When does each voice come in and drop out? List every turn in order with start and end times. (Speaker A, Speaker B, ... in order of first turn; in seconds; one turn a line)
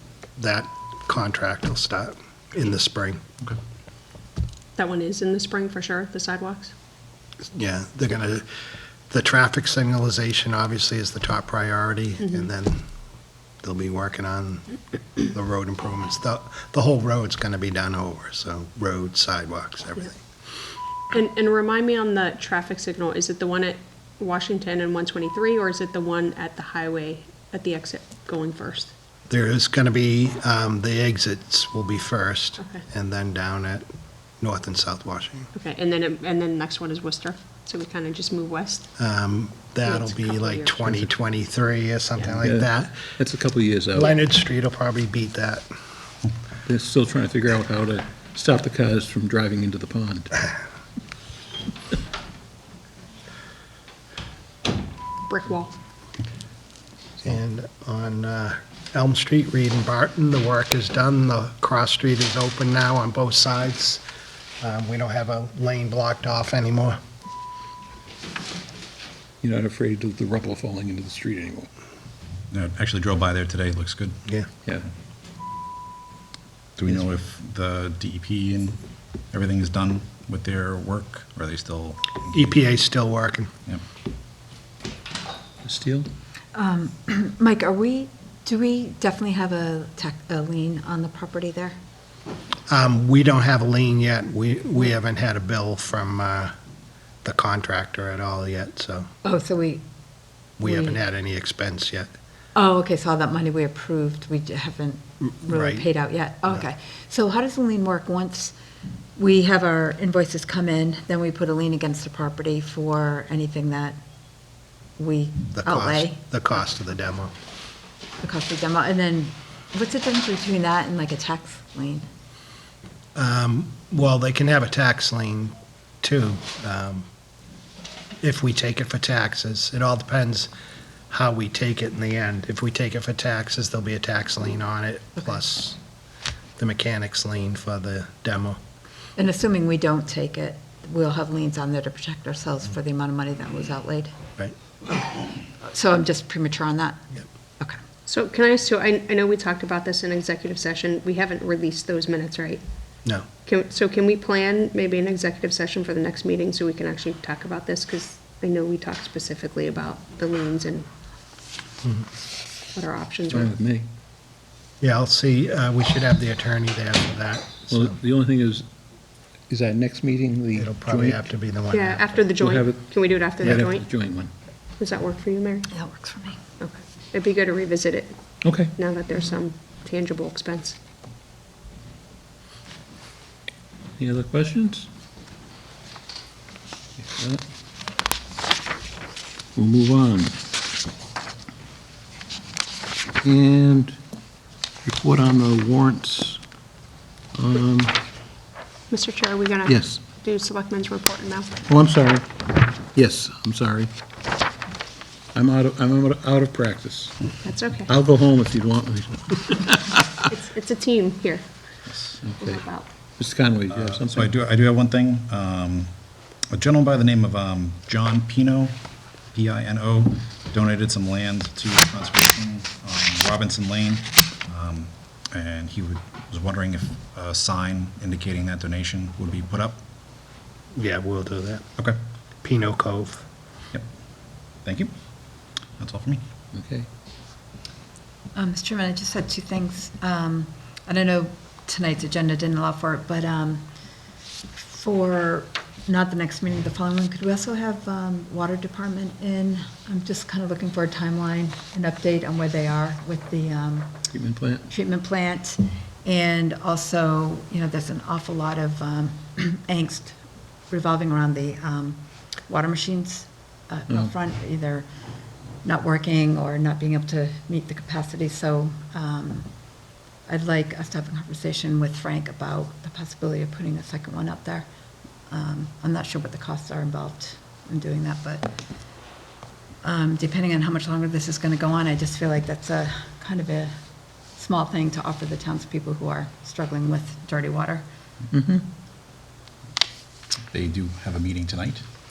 Speaker A: 0.4-3.2
Speaker B: 4.8-6.7
Speaker A: 7.5-8.4
Speaker A: 9.1-12.8
Speaker B: 12.2-12.5
Speaker A: 13.6-20.2
Speaker B: 21.1-28.9
Speaker A: 29.3-33.9
Speaker A: 34.4-35.5
Speaker B: 35.5-38.9
Speaker A: 39.0-43.0
Speaker B: 39.8-41.1
Speaker C: 42.2-44.2
Speaker A: 44.0-45.7
Speaker C: 46.6-50.4
Speaker B: 55.3-55.7
Speaker A: 57.2-64.0
Speaker A: 64.6-67.0
Speaker C: 69.4-71.7
Speaker D: 72.5-74.2
Speaker D: 76.8-78.8
Speaker D: 79.3-82.6
Speaker A: 82.3-83.5
Speaker C: 85.6-86.1
Speaker E: 86.5-91.8
Speaker A: 92.7-96.5
Speaker A: 97.2-99.1
Speaker E: 99.2-99.8
Speaker A: 100.6-102.1
Speaker E: 100.6-101.0
Speaker E: 102.5-108.5
Speaker A: 105.5-105.8
Speaker E: 109.2-114.0
Speaker E: 115.0-116.2
Speaker A: 115.5-117.3
Speaker E: 118.2-122.0
Speaker A: 123.2-127.0
Speaker A: 128.2-130.5
Speaker A: 131.1-135.8
Speaker A: 136.6-138.6
Speaker E: 139.2-144.1
Speaker E: 144.9-147.8
Speaker B: 148.1-152.6
Speaker B: 153.4-160.9
Speaker B: 162.7-163.5
Speaker C: 163.3-163.9
Speaker A: 164.8-167.9
Speaker C: 167.7-168.7
Speaker C: 169.5-171.3
Speaker A: 170.5-172.3
Speaker B: 171.7-173.9
Speaker C: 172.4-174.3
Speaker B: 174.8-175.7
Speaker E: 175.7-176.4
Speaker B: 176.6-180.8
Speaker C: 178.4-178.7
Speaker C: 184.0-184.9
Speaker C: 187.0-187.4
Speaker C: 189.6-190.4
Speaker C: 193.2-194.0
Speaker C: 194.8-196.4
Speaker C: 197.3-198.0
Speaker B: 198.9-201.5
Speaker C: 199.7-200.0
Speaker C: 201.6-203.9
Speaker C: 205.3-207.3
Speaker B: 207.4-207.9
Speaker C: 207.9-210.3
Speaker B: 210.3-211.5
Speaker C: 212.2-212.6
Speaker B: 212.4-212.9
Speaker C: 213.2-214.3
Speaker D: 213.7-215.9
Speaker D: 216.5-218.8
Speaker D: 219.3-229.8
Speaker A: 230.7-231.7
Speaker A: 232.4-233.3
Speaker D: 234.6-234.9
Speaker D: 235.8-236.2
Speaker C: 236.5-236.9
Speaker E: 238.3-243.7
Speaker E: 244.5-254.0
Speaker C: 254.1-254.7
Speaker E: 254.7-264.9
Speaker E: 265.6-269.5
Speaker E: 270.3-274.7
Speaker E: 275.3-278.6
Speaker E: 279.8-283.8
Speaker E: 284.3-287.8
Speaker C: 288.3-288.6
Speaker D: 290.5-291.9